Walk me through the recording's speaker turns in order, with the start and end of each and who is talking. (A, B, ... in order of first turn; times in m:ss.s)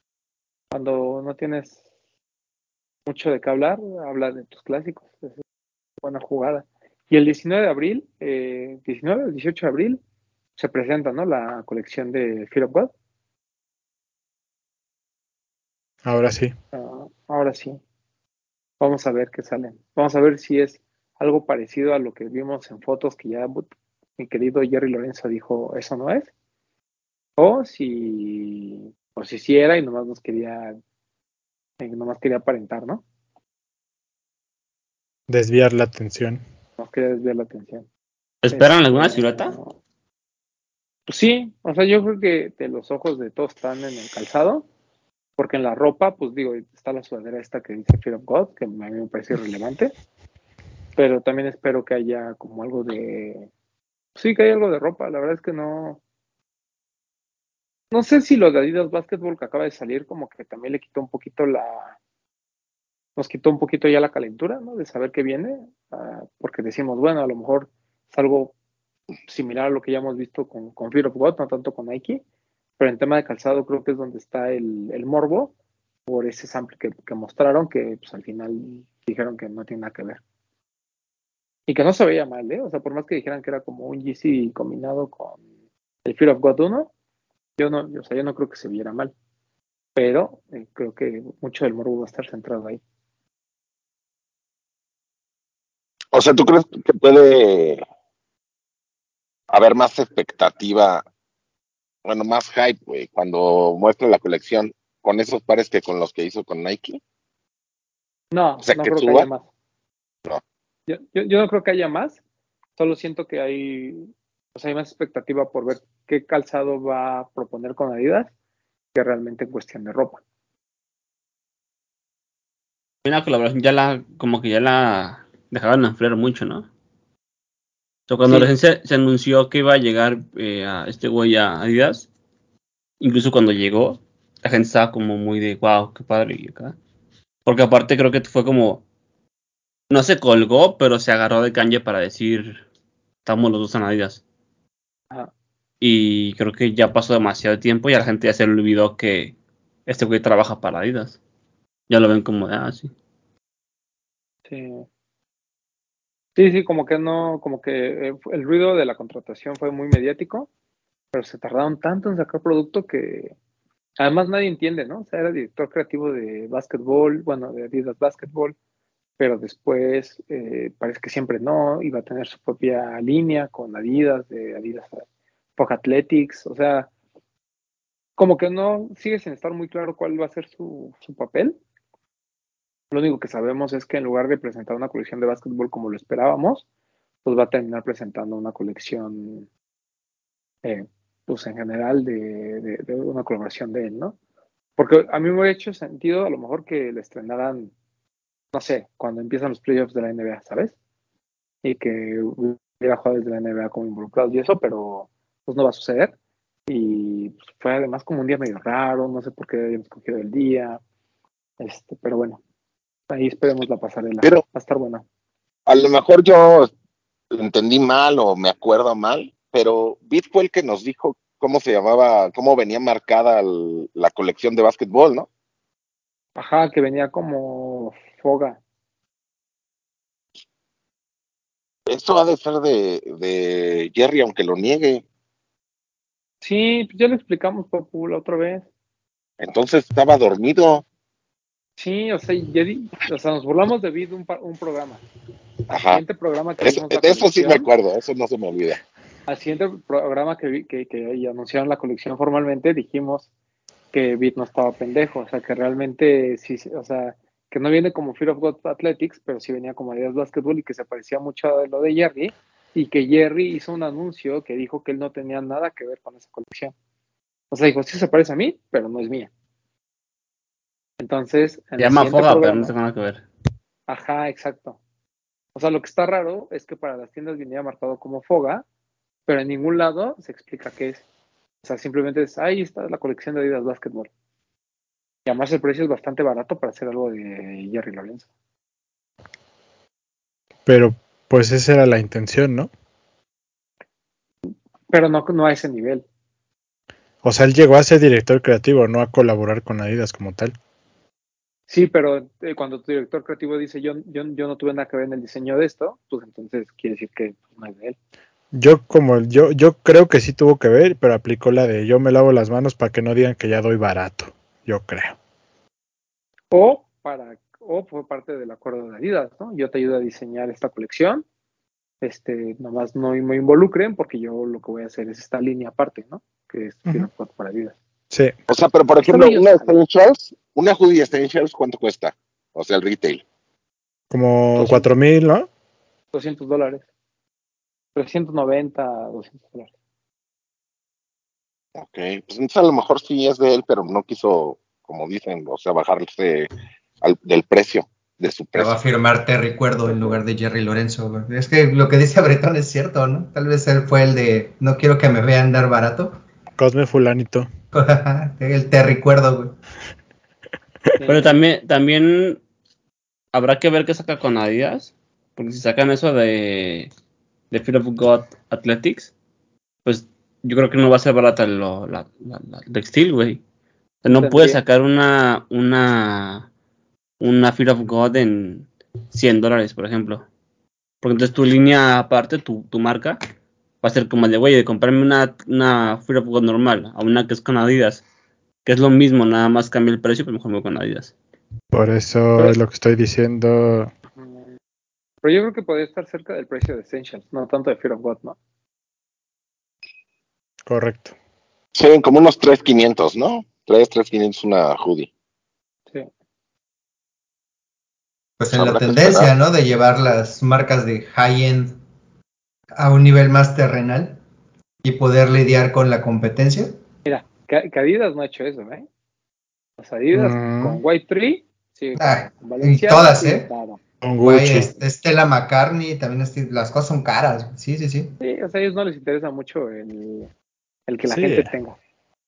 0:00.7-0:01.8 A
0:03.1-0:05.3 A
0:06.0-0:10.0 A
0:10.6-0:12.9 A
0:16.0-0:16.5 B
0:16.7-0:17.8 A
0:18.8-0:26.3 A
0:27.4-0:30.8 A
0:31.8-0:33.0 A
0:35.3-0:36.4 B
0:36.8-0:37.9 A
0:38.4-0:39.6 C
0:38.5-0:39.8 A
0:41.1-0:44.7 A
0:45.4-0:49.9 A
0:51.0-0:53.5 A
0:54.2-0:56.0 A
0:57.9-1:02.0 A
1:03.2-1:08.5 A
1:09.3-1:12.2 A
1:12.8-1:15.5 A
1:16.1-1:20.2 A
1:21.7-1:25.4 A
1:26.0-1:26.9 A
1:27.6-1:29.1 A
1:30.0-1:32.8 A
1:36.1-1:37.8 D
1:39.5-1:41.0 D
1:42.0-1:47.0 D
1:48.3-1:49.4 A
1:48.6-1:49.3 D
1:50.9-1:52.2 A
1:52.8-1:58.3 A
1:58.9-2:00.2 A
2:03.0-2:06.7 C
2:08.1-2:12.1 C
2:08.2-2:08.5 A
2:13.0-2:16.8 C
2:17.4-2:18.8 C
2:19.9-2:22.6 C
2:23.2-2:24.2 C
2:25.8-2:29.4 C
2:29.9-2:31.2 C
2:31.9-2:32.9 C
2:34.5-2:34.9 A
2:36.4-2:40.5 A
2:41.1-2:43.4 A
2:44.0-2:48.6 A
2:49.2-2:55.0 A
2:55.6-2:56.9 A
2:58.2-3:01.6 A
3:02.9-3:06.6 A
3:07.2-3:09.5 A
3:10.6-3:14.2 A
3:14.8-3:17.7 A
3:18.5-3:20.7 A
3:21.6-3:26.1 A
3:26.7-3:30.8 A
3:31.6-3:32.4 A
3:33.1-3:35.0 A
3:35.7-3:36.7 D
3:37.3-3:45.3 D
3:46.4-3:48.6 A
3:51.9-3:55.0 D
3:56.4-3:58.6 A
3:59.4-4:00.8 D
4:01.8-4:05.0 A
4:05.7-4:06.0 D
4:05.9-4:07.7 A
4:06.6-4:08.8 D
4:09.3-4:13.3 A
4:13.9-4:26.7 A
4:27.5-4:29.3 A
4:31.0-4:32.7 A
4:31.8-4:33.2 C
4:33.9-4:34.8 A
4:35.6-4:38.6 A
4:39.3-4:41.0 A
4:41.6-4:44.1 A
4:45.3-4:48.3 A
4:50.7-4:52.7 B
4:54.5-4:56.0 A
4:57.2-5:00.5 B
5:01.7-5:08.0 A
5:08.5-5:15.2 B
5:16.5-5:21.2 A
5:22.0-5:27.8 A
5:28.5-5:33.2 D
5:29.0-5:29.8 A
5:34.1-5:35.5 B
5:34.6-5:34.9 A
5:36.1-5:36.9 A
5:38.0-5:39.7 A
5:41.8-5:46.5 D
5:47.0-5:48.8 D
5:48.6-5:56.2 E
5:49.9-5:50.2 A
5:56.6-5:57.5 B
5:57.7-5:59.6 E
6:01.0-6:01.4 A
6:01.1-6:02.4 C
6:03.3-6:06.9 C
6:07.5-6:09.1 C
6:09.8-6:13.4 C
6:14.0-6:16.5 C
6:14.2-6:14.6 A
6:17.2-6:20.3 C
6:21.0-6:23.2 C
6:23.8-6:28.0 C
6:28.6-6:31.1 C
6:31.7-6:33.9 B
6:34.2-6:34.5 A
6:35.2-6:38.4 A
6:40.7-6:41.1 B
6:41.7-6:45.1 D
6:48.4-6:51.8 E
6:48.5-6:49.3 D
6:52.8-6:54.2 E
6:54.8-6:56.8 E
6:57.1-6:58.9 A
6:59.8-7:03.8 A
7:00.1-7:00.8 B
7:02.0-7:03.5 E
7:04.0-7:04.7 B
7:04.2-7:08.2 E
7:08.2-7:10.3 A
7:10.9-7:11.8 A
7:11.0-7:11.5 B